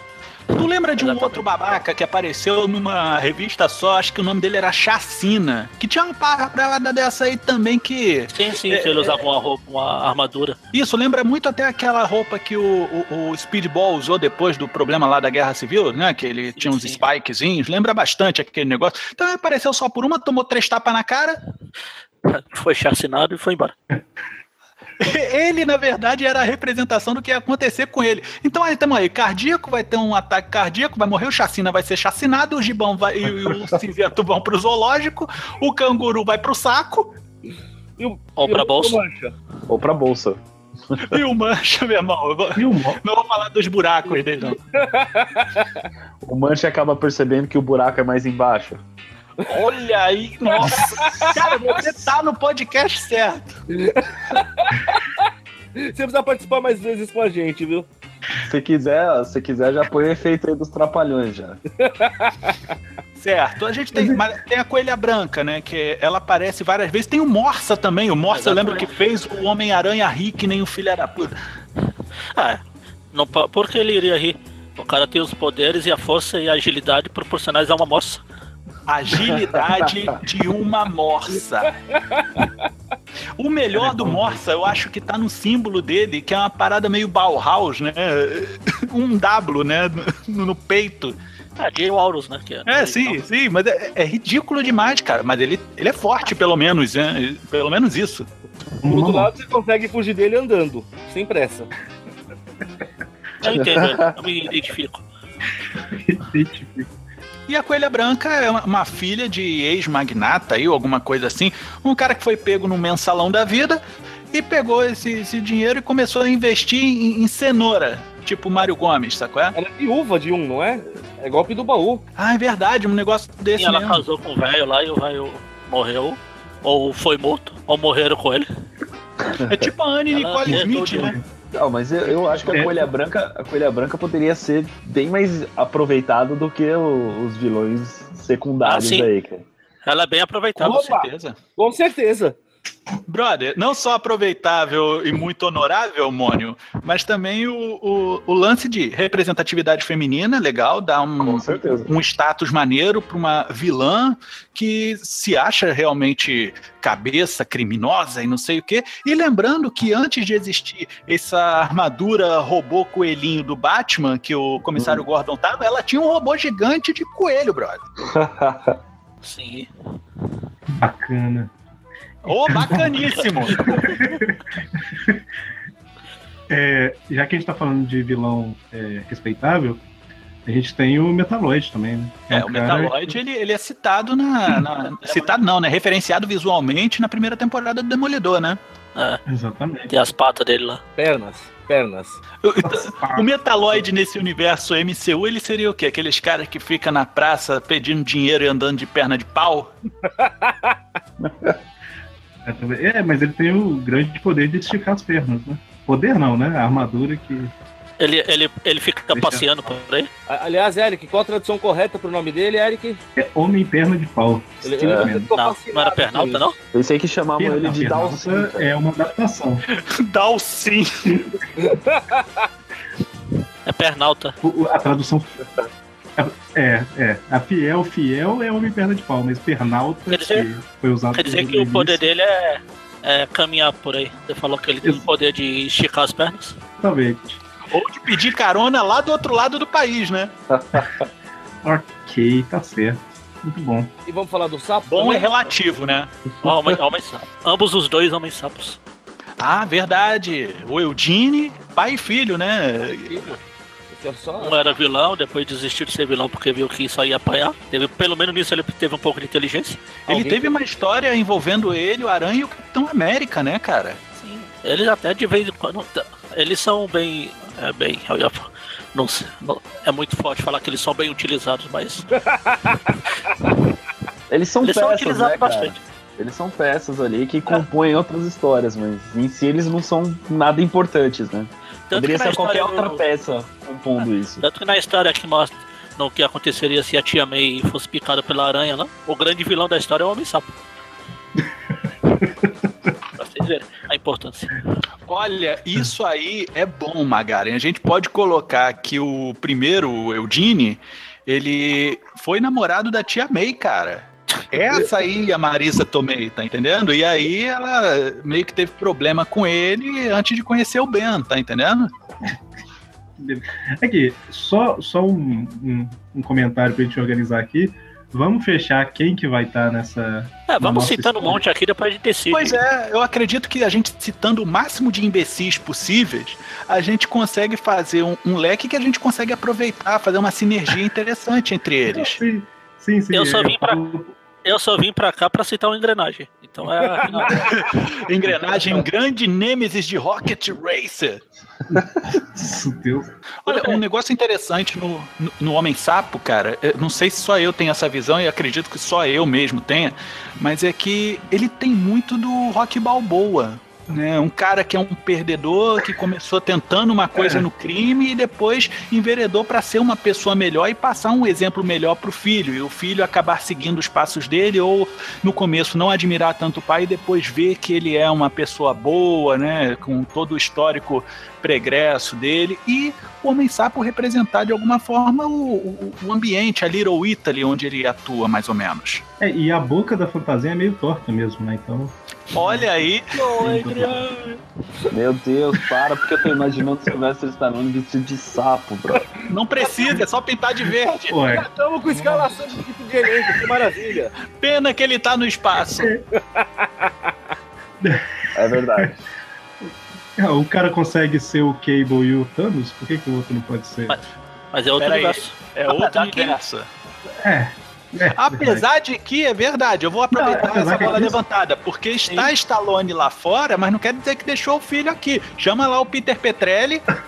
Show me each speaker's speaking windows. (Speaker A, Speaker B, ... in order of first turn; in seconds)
Speaker A: 0.5-9.2, 10.7-21.4, 25.0-37.1, 41.0-44.6, 49.5-53.6, 63.2-71.3, 78.9-81.7, 83.4-91.2, 92.7-98.3, 107.5-113.8, 114.3-119.5, 122.2-124.0, 129.4-131.2, 140.6-141.3, 143.1-167.8, 172.2-173.9, 182.3-188.6, 192.4-199.7, 219.7-221.2, 237.7-240.3, 244.9-246.1, 249.4-253.3, 260.1-264.0, 295.1-311.9, 322.3-332.2, 337.3-341.2, 343.4-379.0, 382.3-384.1, 389.2-391.4, 394.4-395.9, 404.8-406.7, 408.1-416.9
Speaker B: 1.0-1.4, 8.3-10.6, 16.6-17.0, 22.2-23.7, 38.4-39.0, 68.3-68.8, 72.3-72.6, 73.1-78.2, 91.6-93.2, 103.4-105.0, 123.6-128.5, 130.1-131.2, 138.6-139.1, 139.8-141.0, 169.2-169.7, 173.0-174.0, 185.0-185.3, 188.9-189.2, 189.9-190.8, 208.0-210.1, 215.3-216.6, 223.7-224.3, 230.1-230.4, 231.1-236.6, 246.4-248.8, 254.4-259.8, 264.1-272.1, 272.9-273.5, 274.6-275.8, 281.9-283.0, 284.4-290.5, 293.1-294.6, 320.5-322.6, 333.1-333.8, 334.4-337.6, 343.5-343.8, 383.3-384.1, 403.9-406.4
Speaker C: 38.0-39.3, 44.7-45.9, 49.4-49.9, 50.4-51.8, 53.7-57.9, 61.8-62.6, 81.9-82.6, 98.9-101.7, 119.5-122.0, 140.8-141.0, 141.6-142.4, 191.0-192.2, 200.2-200.7, 210.3-213.0, 214.6-216.4, 221.6-222.4, 244.1-245.3, 253.9-254.6, 260.1-260.5, 272.3-272.8, 389.6-390.0, 391.3-394.1, 396.3-397.1
Speaker D: 39.7-40.4, 40.9-41.2, 46.2-48.8, 58.4-61.6, 103.4-104.1, 131.5-139.4, 151.2-151.9, 164.8-165.0, 168.0-168.8, 201.2-201.5, 214.8-215.1, 216.7-218.7, 240.5-241.1, 274.3-284.4, 384.9-389.1, 398.3-399.0
Speaker E: 42.5-43.0, 63.9-64.2, 98.8-99.4, 105.8-106.9, 130.4-131.2, 132.5-132.9, 170.7-171.5, 172.5-175.2, 176.5-179.8, 180.4-183.2, 189.3-189.9, 192.6-193.3, 202.4-207.5, 209.1-209.5, 213.2-215.3, 217.4-219.6, 224.4-225.4, 226.2-232.0, 236.8-237.4, 241.6-243.9, 292.2-292.5, 313.2-321.4, 331.9-334.1, 341.7-343.1, 379.2-384.1, 391.1-392.4, 395.8-396.0, 397.8-398.9, 399.6-404.0, 407.2-408.6, 410.1-411.2